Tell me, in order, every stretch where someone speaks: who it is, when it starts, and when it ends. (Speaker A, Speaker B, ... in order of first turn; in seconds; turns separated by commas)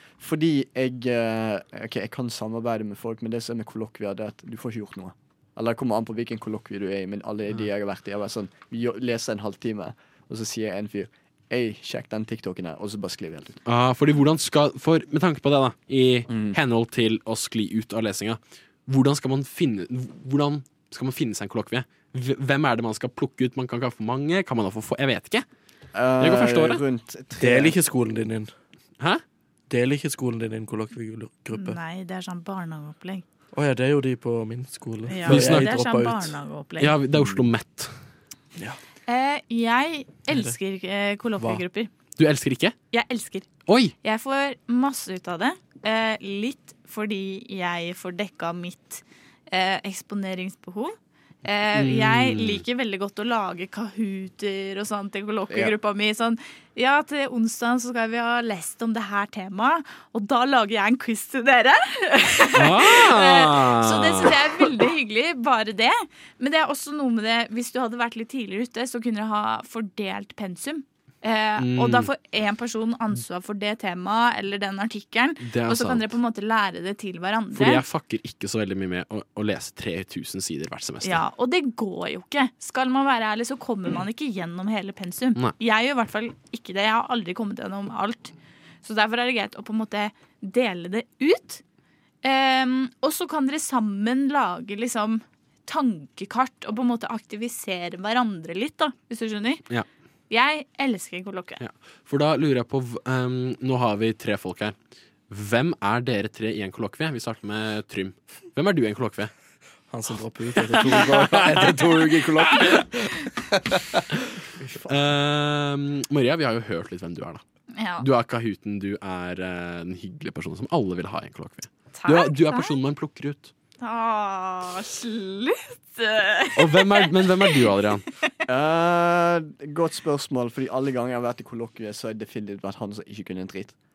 Speaker A: 0.2-13.6, Speaker B: 13.6-25.4, Speaker A: 16.3-16.6, Speaker A: 25.9-27.8, Speaker B: 26.2-26.8, Speaker C: 27.4-28.5, Speaker C: 29.7-31.8, Speaker D: 31.5-33.2, Speaker C: 33.5-36.3, Speaker D: 35.1-36.9, Speaker B: 35.3-35.8, Speaker B: 36.8-37.9, Speaker D: 39.1-41.9, Speaker B: 42.2-42.8, Speaker D: 42.9-43.5, Speaker B: 43.7-43.9, Speaker D: 44.0-77.8, Speaker B: 51.7-52.6, Speaker A: 55.5-55.7, Speaker B: 62.5-64.4, Speaker B: 71.6-72.1, Speaker B: 75.4-76.1, Speaker B: 77.5-81.2, Speaker D: 81.0-88.3, Speaker D: 88.8-91.6, Speaker D: 92.2-99.6, Speaker D: 100.3-101.6, Speaker B: 101.6-104.8, Speaker B: 105.3-109.3, Speaker C: 109.9-113.3, Speaker B: 110.7-112.7, Speaker A: 114.6-115.0, Speaker B: 114.9-117.4, Speaker D: 117.7-118.0, Speaker B: 118.0-123.5, Speaker D: 121.9-122.7, Speaker D: 123.8-127.7, Speaker B: 126.5-128.0, Speaker A: 128.5-133.7